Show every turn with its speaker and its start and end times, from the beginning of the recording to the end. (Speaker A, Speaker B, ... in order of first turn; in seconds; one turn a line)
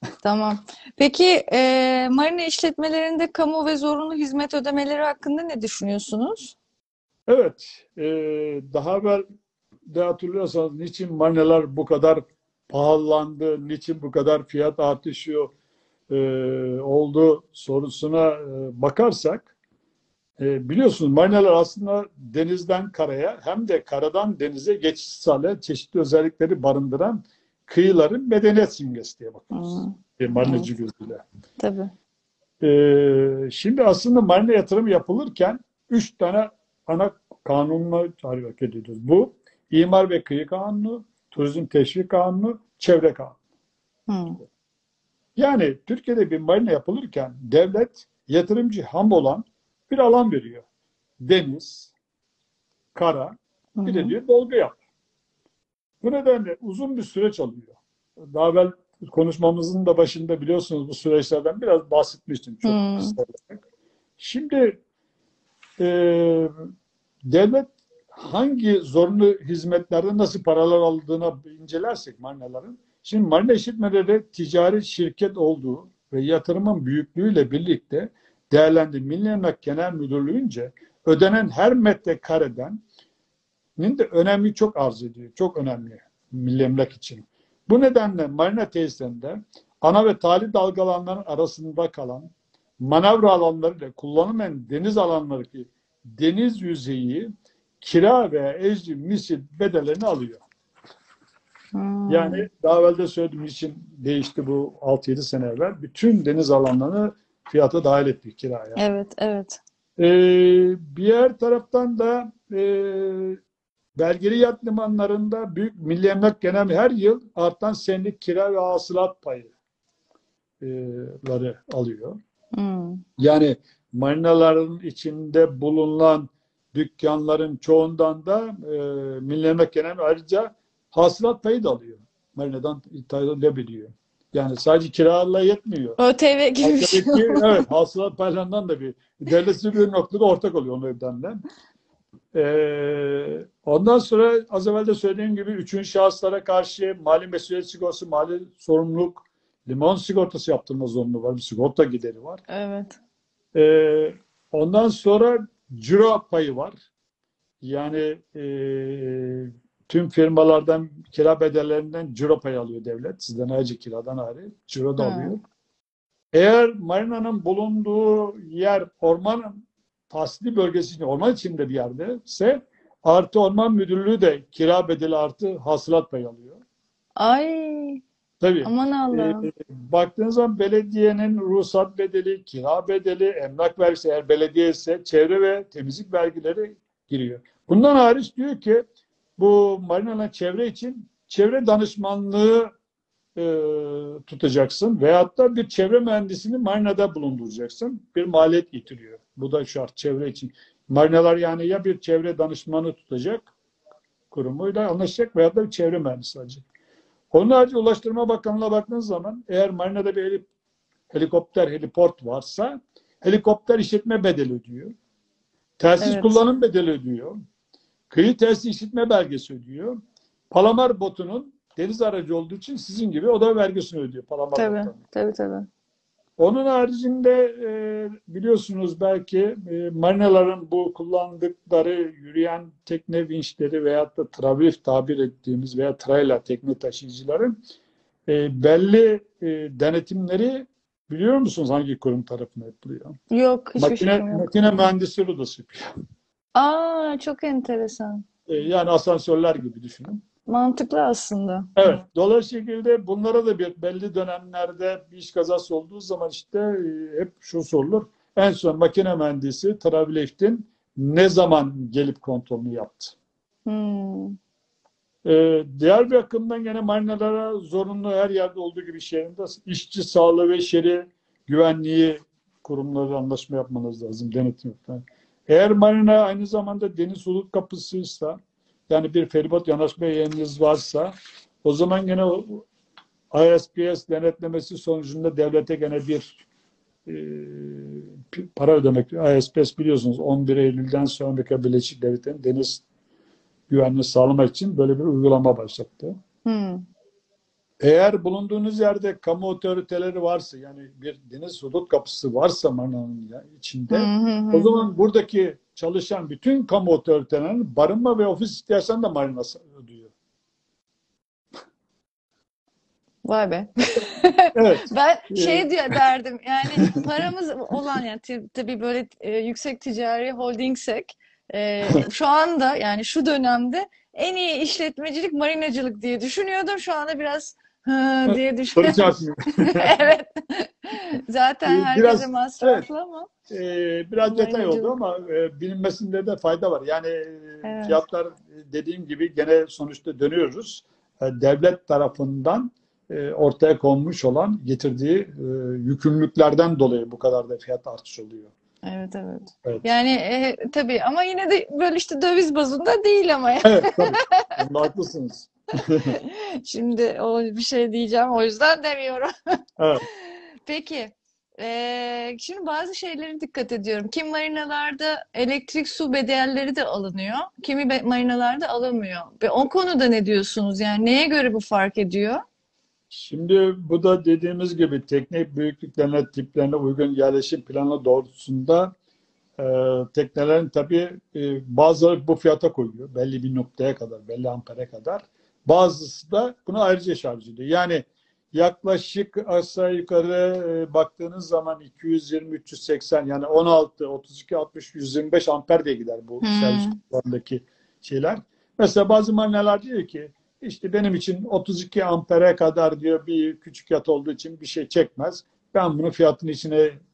Speaker A: 0.2-6.6
Speaker B: 7.3-9.2
Speaker B: 9.9-15.5
Speaker B: 16.1-19.5
Speaker B: 20.4-31.2
Speaker A: 29.5-30.7
Speaker A: 31.6-31.9
Speaker B: 32.6-43.4
Speaker A: 44.1-44.4
Speaker B: 45.4-50.6
Speaker B: 51.2-51.9
Speaker B: 53.0-54.8
Speaker A: 53.8-54.1
Speaker B: 56.0-63.6
Speaker A: 62.6-63.2
Speaker B: 64.2-64.8
Speaker B: 65.8-66.5
Speaker B: 67.3-82.8
Speaker B: 83.8-97.3
Speaker B: 97.8-100.4
Speaker A: 101.7-102.5
Speaker B: 102.1-108.8
Speaker A: 108.8-109.6
Speaker B: 110.0-113.4
Speaker B: 114.0-119.5
Speaker B: 120.6-122.2
Speaker A: 122.5-123.0
Speaker B: 123.2-136.0
Speaker A: 136.0-137.7
Speaker B: 136.6-141.4
Speaker B: 142.3-152.4
Speaker A: 152.5-153.0
Speaker B: 153.5-156.8
Speaker B: 157.6-165.4
Speaker A: 165.0-165.3
Speaker B: 166.3-176.6
Speaker A: 177.2-178.0
Speaker B: 178.4-192.7
Speaker A: 178.6-179.5
Speaker B: 193.4-203.5
Speaker B: 204.3-206.6
Speaker B: 207.3-210.5
Speaker B: 211.1-214.9
Speaker B: 215.8-217.4
Speaker A: 216.0-216.4
Speaker B: 218.1-225.0
Speaker A: 224.6-225.7
Speaker B: 226.4-237.6
Speaker B: 238.3-243.2
Speaker A: 243.3-244.8
Speaker B: 243.8-245.8
Speaker A: 246.6-248.3
Speaker B: 248.5-250.2
Speaker A: 250.5-251.7
Speaker B: 251.8-263.2
Speaker A: 263.7-264.4
Speaker B: 265.2-278.4
Speaker B: 278.9-281.1
Speaker B: 281.6-282.7
Speaker B: 283.3-286.3
Speaker B: 287.1-292.8
Speaker B: 293.7-296.2
Speaker A: 296.4-296.8
Speaker B: 297.8-310.1
Speaker A: 303.9-304.9
Speaker A: 313.2-333.3
Speaker B: 314.6-315.7
Speaker B: 328.3-330.0
Speaker B: 331.7-332.9
Speaker B: 333.5-348.5
Speaker A: 334.2-334.9
Speaker A: 337.6-338.0
Speaker A: 348.8-354.6
Speaker B: 353.6-356.1
Speaker A: 356.1-359.3
Speaker A: 360.3-372.4
Speaker B: 373.1-378.9
Speaker B: 379.6-406.9
Speaker A: 396.4-397.0